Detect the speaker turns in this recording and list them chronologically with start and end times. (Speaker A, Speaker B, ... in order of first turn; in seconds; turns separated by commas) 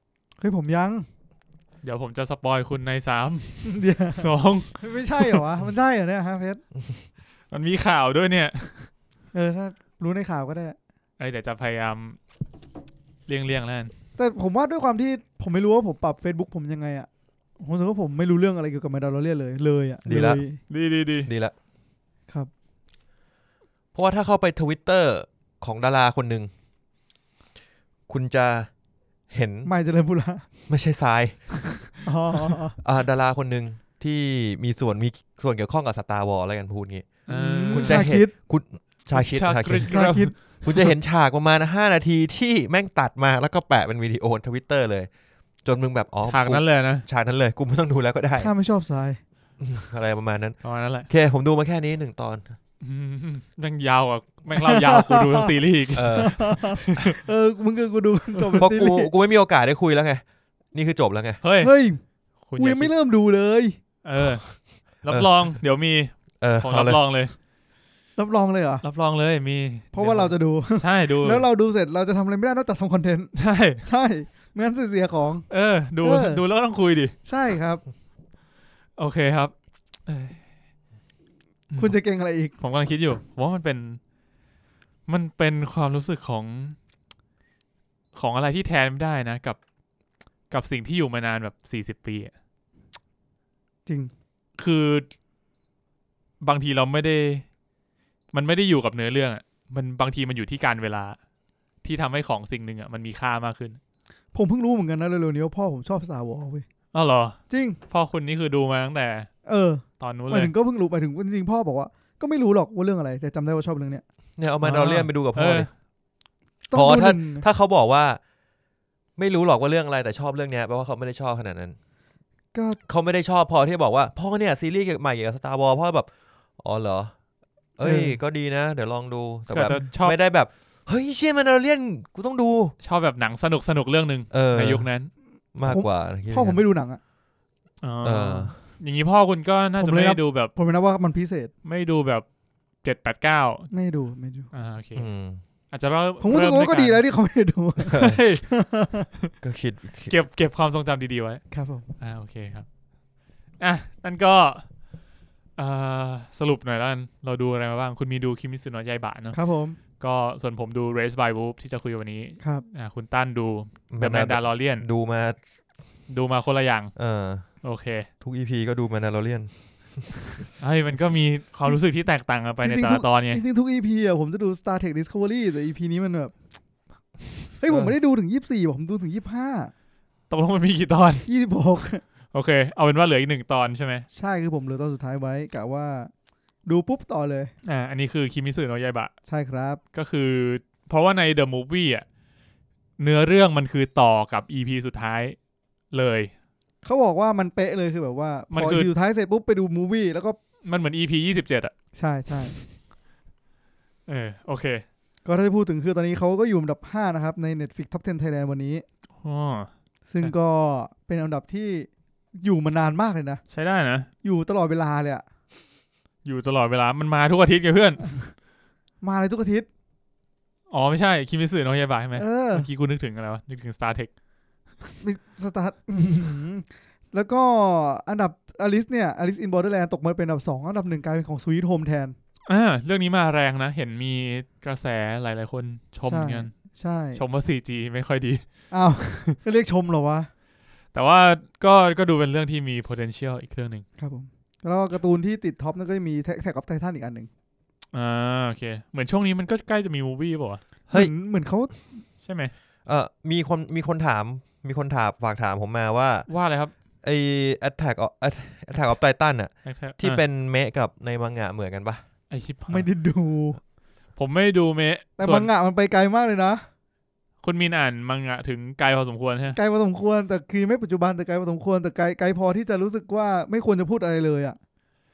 Speaker A: 0.4-1.1, Speaker B: 1.8-5.4, Speaker A: 3.6-6.6, Speaker B: 7.5-8.9, Speaker A: 9.3-10.8, Speaker B: 11.2-12.2, Speaker B: 13.3-13.9, Speaker A: 14.2-20.6, Speaker C: 20.1-20.4, Speaker B: 20.7-21.3, Speaker C: 21.2-21.5, Speaker C: 23.9-26.5, Speaker C: 28.1-28.7, Speaker C: 29.3-29.7, Speaker A: 29.7-30.5, Speaker C: 30.7-31.9, Speaker A: 32.0-32.8, Speaker C: 32.8-45.1, Speaker B: 37.3-38.1, Speaker A: 37.3-38.3, Speaker B: 39.1-40.9, Speaker A: 39.9-40.4, Speaker C: 45.6-48.5, Speaker B: 46.3-47.0, Speaker A: 48.4-49.2, Speaker C: 49.6-52.6, Speaker B: 50.6-51.1, Speaker B: 52.8-57.2, Speaker A: 54.5-55.5, Speaker C: 55.9-56.4, Speaker A: 56.1-59.1, Speaker C: 58.6-61.4, Speaker B: 61.4-61.7, Speaker A: 61.6-62.0, Speaker B: 62.5-62.9, Speaker A: 62.6-63.8, Speaker B: 64.0-67.3, Speaker C: 66.4-67.0, Speaker A: 68.2-68.8, Speaker B: 68.8-71.5, Speaker A: 69.9-75.5, Speaker B: 73.3-73.9, Speaker B: 75.5-77.2, Speaker A: 76.0-76.4, Speaker A: 77.2-77.8, Speaker B: 79.0-79.5, Speaker B: 80.1-80.4, Speaker B: 81.7-82.0, Speaker A: 81.8-82.5, Speaker B: 82.5-84.0, Speaker B: 85.1-86.8, Speaker B: 88.1-89.6, Speaker B: 90.5-92.3, Speaker A: 93.9-94.1, Speaker B: 94.6-95.1, Speaker B: 96.4-97.5, Speaker B: 98.3-101.2, Speaker B: 101.8-103.8, Speaker A: 104.3-106.7, Speaker B: 106.9-109.3, Speaker A: 107.5-107.8, Speaker A: 109.5-114.0, Speaker B: 110.0-110.5, Speaker C: 114.4-115.7, Speaker B: 114.6-115.7, Speaker A: 116.7-117.5, Speaker C: 116.7-118.2, Speaker C: 119.2-121.8, Speaker A: 122.5-122.8, Speaker C: 122.9-127.1, Speaker C: 127.8-132.8, Speaker A: 127.8-128.2, Speaker B: 129.5-130.2, Speaker B: 132.8-135.1, Speaker C: 134.3-134.9, Speaker C: 135.6-136.6, Speaker A: 135.6-137.0, Speaker B: 137.8-140.5, Speaker C: 138.0-138.6, Speaker A: 139.8-141.5, Speaker B: 141.7-142.2, Speaker B: 142.8-143.7, Speaker A: 143.7-144.5, Speaker B: 144.5-145.1, Speaker C: 145.0-145.4, Speaker B: 145.7-147.0, Speaker A: 146.2-149.1, Speaker C: 147.9-148.2, Speaker B: 147.9-148.5, Speaker C: 149.4-150.1, Speaker B: 150.1-151.5, Speaker A: 151.5-151.9, Speaker B: 152.0-152.7, Speaker B: 153.6-154.7, Speaker B: 155.6-159.4, Speaker A: 159.3-159.8, Speaker B: 160.0-164.9, Speaker C: 163.9-165.4, Speaker B: 166.1-166.9, Speaker C: 167.0-167.6, Speaker B: 167.6-168.1, Speaker C: 168.2-170.4, Speaker B: 170.6-173.4, Speaker A: 172.6-176.3, Speaker A: 177.6-179.7, Speaker C: 177.7-177.9, Speaker B: 180.3-181.3, Speaker A: 181.3-182.0, Speaker B: 182.3-184.1, Speaker A: 184.1-186.1, Speaker A: 186.7-187.5, Speaker B: 187.6-189.1, Speaker A: 189.3-189.8, Speaker B: 189.9-192.1, Speaker B: 193.0-195.4, Speaker B: 195.9-196.3, Speaker A: 196.8-200.4, Speaker B: 198.5-198.9, Speaker B: 200.7-201.7, Speaker A: 201.9-202.6, Speaker B: 204.1-204.8, Speaker A: 205.2-208.8, Speaker B: 209.2-210.3, Speaker A: 210.1-213.4, Speaker B: 213.5-214.1, Speaker A: 214.2-215.2, Speaker B: 216.2-218.2, Speaker A: 219.0-219.7, Speaker B: 220.7-224.1, Speaker A: 222.2-222.7, Speaker A: 225.0-232.2, Speaker B: 232.5-236.6, Speaker A: 236.1-237.2, Speaker B: 237.2-239.4, Speaker A: 238.7-240.3, Speaker B: 240.9-243.9, Speaker A: 244.0-247.3, Speaker B: 247.9-250.6, Speaker A: 250.9-252.0, Speaker B: 252.2-252.5, Speaker C: 252.9-256.3, Speaker B: 256.3-256.7, Speaker C: 257.0-262.0, Speaker B: 259.6-260.2, Speaker B: 262.3-262.9, Speaker A: 262.7-263.6, Speaker B: 264.2-265.5, Speaker A: 265.2-266.6, Speaker B: 267.4-269.6, Speaker A: 269.6-274.6